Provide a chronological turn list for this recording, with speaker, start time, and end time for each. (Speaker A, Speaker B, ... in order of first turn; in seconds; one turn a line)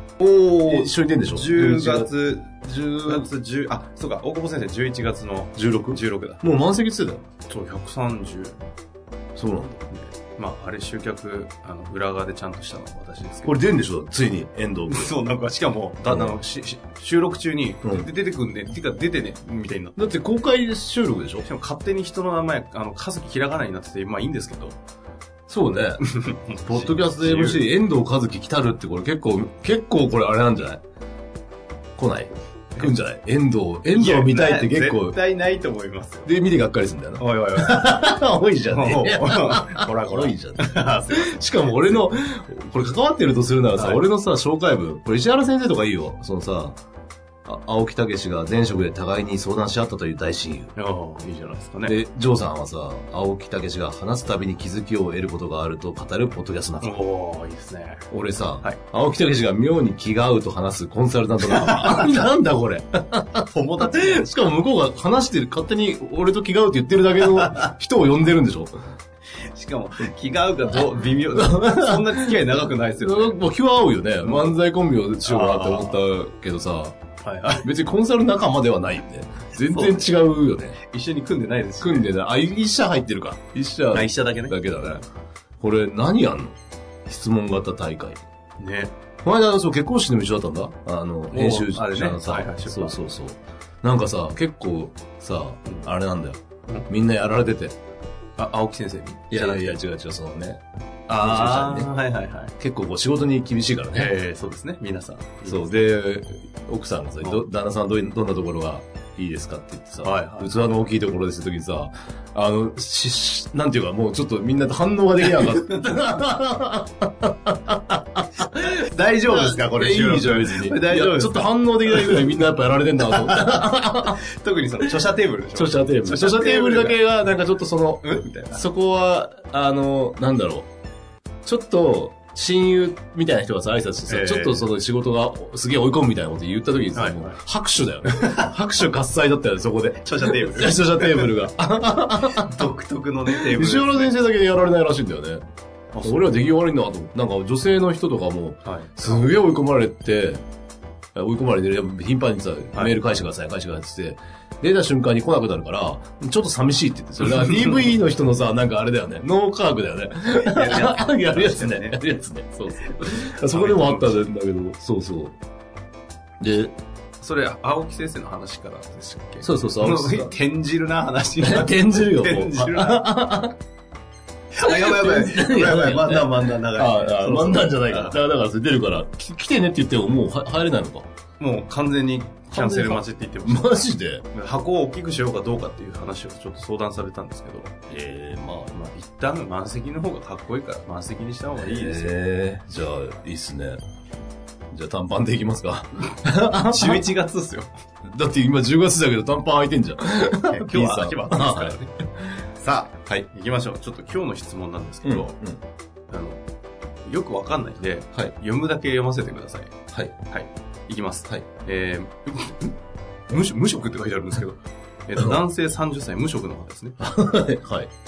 Speaker A: 0.2-2.1
Speaker B: 0.2-6.4
Speaker A: 2.6-3.3
Speaker A: 5.6-7.2
Speaker B: 7.5-8.6
Speaker A: 9.4-9.8
Speaker B: 9.9-13.6
Speaker A: 13.4-15.1
Speaker B: 14.9-20.1
Speaker A: 16.1-16.4
Speaker A: 20.0-21.5
Speaker B: 21.4-24.8
Speaker A: 25.5-26.0
Speaker B: 26.0-27.7
Speaker A: 26.7-30.8
Speaker A: 32.0-35.2
Speaker B: 33.9-36.3
Speaker A: 36.3-46.8
Speaker B: 37.2-42.1
Speaker B: 43.8-44.0
Speaker A: 47.5-50.7
Speaker B: 50.8-52.0
Speaker A: 51.9-56.9
Speaker B: 56.8-58.1
Speaker A: 58.1-68.7
Speaker B: 61.4-62.0
Speaker B: 63.5-64.3
Speaker B: 69.5-73.4
Speaker A: 71.3-72.4
Speaker A: 73.0-77.0
Speaker B: 74.2-74.6
Speaker B: 75.2-76.0
Speaker B: 77.2-77.7
Speaker A: 77.5-80.8
Speaker B: 79.6-80.2
Speaker B: 80.8-82.1
Speaker A: 81.8-85.0
Speaker B: 83.9-85.0
Speaker A: 85.6-86.5
Speaker A: 87.1-88.2
Speaker B: 88.6-88.9
Speaker A: 89.2-97.8
Speaker B: 91.3-93.0
Speaker B: 98.4-99.8
Speaker A: 99.3-101.9
Speaker B: 101.1-102.5
Speaker A: 102.6-104.1
Speaker B: 103.9-105.7
Speaker A: 105.5-124.2
Speaker B: 110.0-110.5
Speaker B: 115.2-116.0
Speaker B: 118.4-122.4
Speaker B: 123.0-127.2
Speaker A: 125.5-130.7
Speaker B: 128.0-128.7
Speaker A: 131.4-142.7
Speaker B: 134.1-134.7
Speaker B: 136.9-137.4
Speaker B: 138.1-138.5
Speaker B: 140.0-141.5
Speaker B: 142.2-144.1
Speaker A: 143.3-145.4
Speaker B: 145.9-146.3
Speaker A: 146.0-150.4
Speaker B: 148.7-149.3
Speaker A: 151.2-165.4
Speaker B: 157.2-157.9
Speaker B: 160.3-162.0
Speaker B: 162.9-164.2
Speaker A: 166.4-166.7
Speaker B: 167.2-173.1
Speaker A: 169.4-170.3
Speaker A: 171.4-173.6
Speaker B: 174.6-178.2
Speaker A: 174.7-181.1
Speaker B: 181.4-187.7
Speaker A: 182.5-184.2
Speaker A: 187.9-188.7
Speaker B: 188.7-192.1
Speaker A: 191.6-193.8
Speaker A: 194.7-197.0
Speaker B: 196.6-197.7
Speaker A: 198.1-202.3
Speaker B: 200.5-201.9
Speaker B: 202.6-205.3
Speaker A: 205.0-205.6
Speaker B: 206.1-206.4
Speaker B: 207.1-209.7
Speaker B: 210.3-212.7
Speaker B: 213.3-217.0
Speaker A: 217.0-217.9